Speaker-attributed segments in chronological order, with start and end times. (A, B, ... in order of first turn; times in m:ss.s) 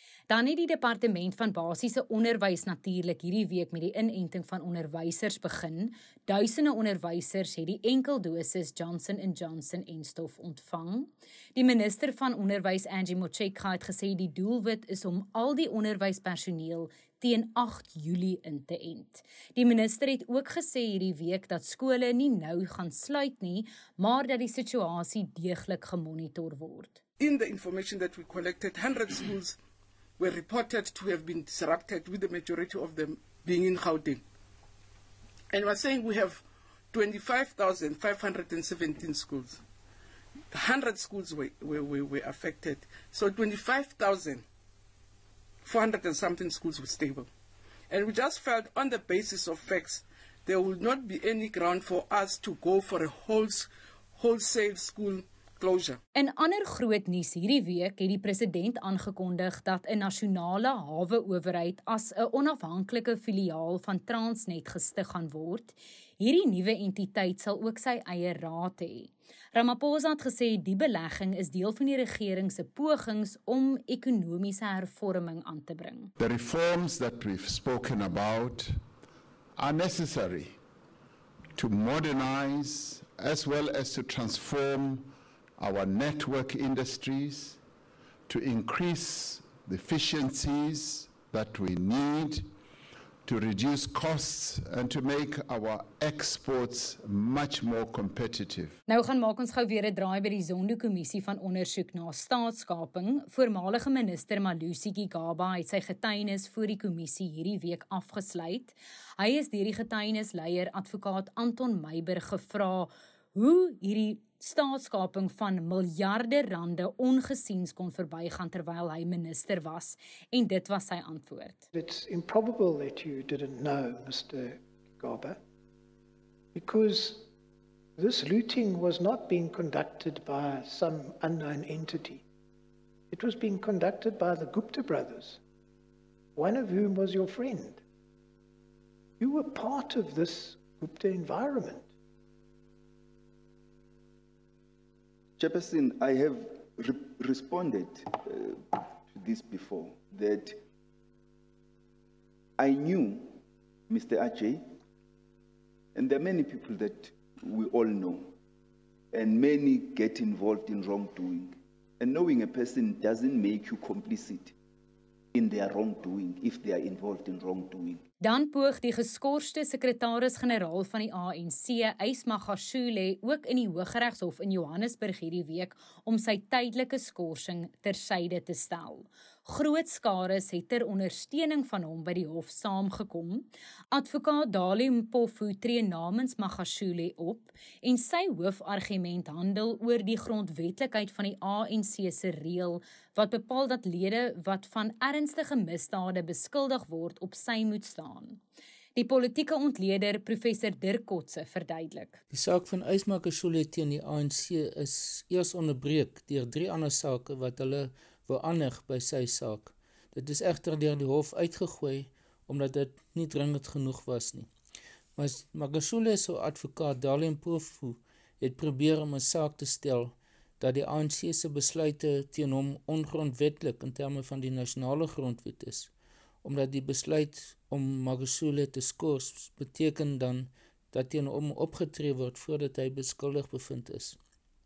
0:00.3-0:27.0 A
0:27.2-0:29.6 B
0:30.2-0:34.2 B
0:35.5-0:39.6 B
0:40.5-0:44.4 B
0:45.6-0:47.3 B
0:47.9-0:56.0 B
0:56.1-1:16.1 A
1:16.2-1:18.7 C
1:19.6-1:20.6 C
1:21.6-1:27.6 C
1:28.3-1:32.5 C
1:33.2-1:38.8 C
1:38.9-2:01.7 A
2:01.7-2:05.4 D
2:06.5-2:07.3 D
2:08.0-2:12.2 D
2:13.1-2:15.4 D
2:16.4-2:17.8 D
2:19.2-2:21.9 D
2:25.4-2:30.6 E
2:32.6-2:34.7 E
2:35.9-2:38.3 E
2:39.1-2:44.6 E
2:45.3-2:48.0 E
2:48.2-3:18.4 A
3:19.0-3:22.2 A
3:22.3-3:34.5 F
3:35.2-3:45.9 F
3:46.4-3:54.2 F